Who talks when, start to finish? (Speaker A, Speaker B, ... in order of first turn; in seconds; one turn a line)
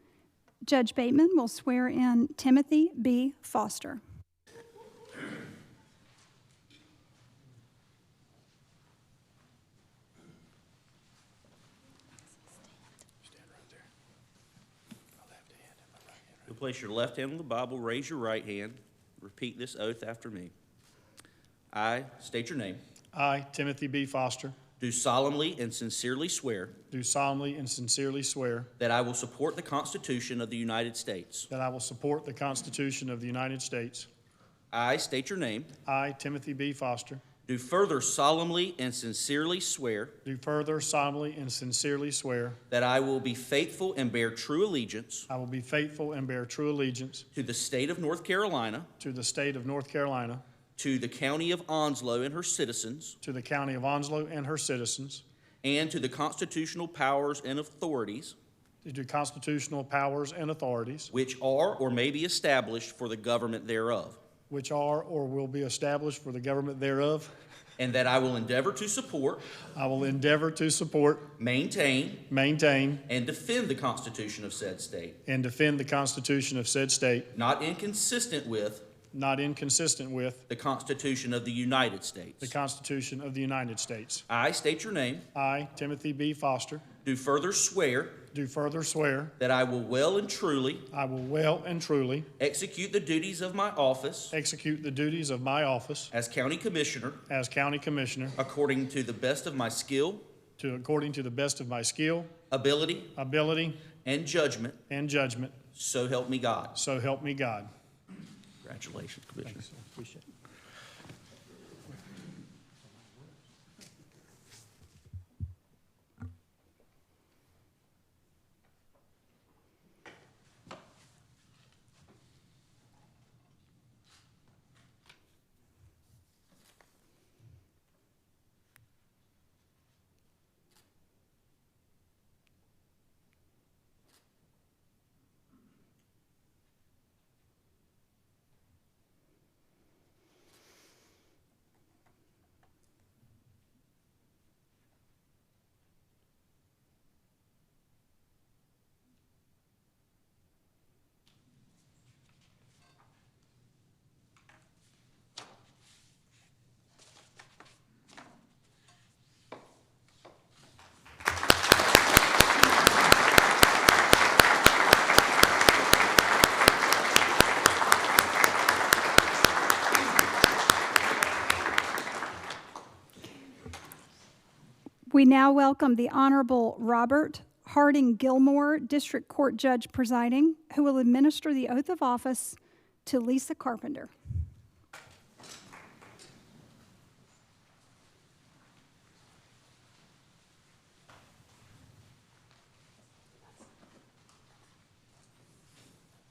Speaker A: 0.6-4.0
Speaker B: 16.4-20.5
Speaker B: 21.7-22.8
Speaker C: 23.1-24.6
Speaker B: 24.8-26.8
Speaker C: 26.9-28.7
Speaker B: 28.8-31.5
Speaker C: 31.5-34.1
Speaker B: 34.7-35.7
Speaker C: 35.8-37.2
Speaker B: 37.4-40.1
Speaker C: 40.2-42.6
Speaker B: 42.7-45.3
Speaker C: 45.3-47.3
Speaker B: 47.3-48.9
Speaker C: 49.0-50.4
Speaker B: 50.8-53.2
Speaker C: 53.2-55.2
Speaker B: 55.6-58.4
Speaker C: 58.8-61.1
Speaker B: 61.1-64.2
Speaker C: 64.5-67.3
Speaker B: 67.8-69.5
Speaker C: 69.7-71.3
Speaker B: 71.4-72.2
Speaker C: 72.3-73.0
Speaker B: 73.1-75.2
Speaker C: 75.2-77.3
Speaker B: 77.3-78.8
Speaker C: 79.1-80.5
Speaker B: 80.5-82.5
Speaker C: 82.4-84.3
Speaker B: 84.3-85.2
Speaker C: 85.3-86.9
Speaker B: 87.0-88.2
Speaker C: 88.3-89.3
Speaker B: 89.4-90.8
Speaker C: 90.9-92.3
Speaker B: 92.4-94.3
Speaker C: 94.3-96.1
Speaker B: 96.1-97.2
Speaker C: 97.3-98.4
Speaker B: 98.4-100.2
Speaker C: 100.6-102.3
Speaker B: 102.5-103.1
Speaker C: 103.1-103.8
Speaker B: 104.0-104.8
Speaker C: 104.9-105.6
Speaker B: 105.7-106.7
Speaker C: 106.7-107.7
Speaker B: 108.6-109.6
Speaker C: 109.4-110.2
Speaker A: 175.1-184.1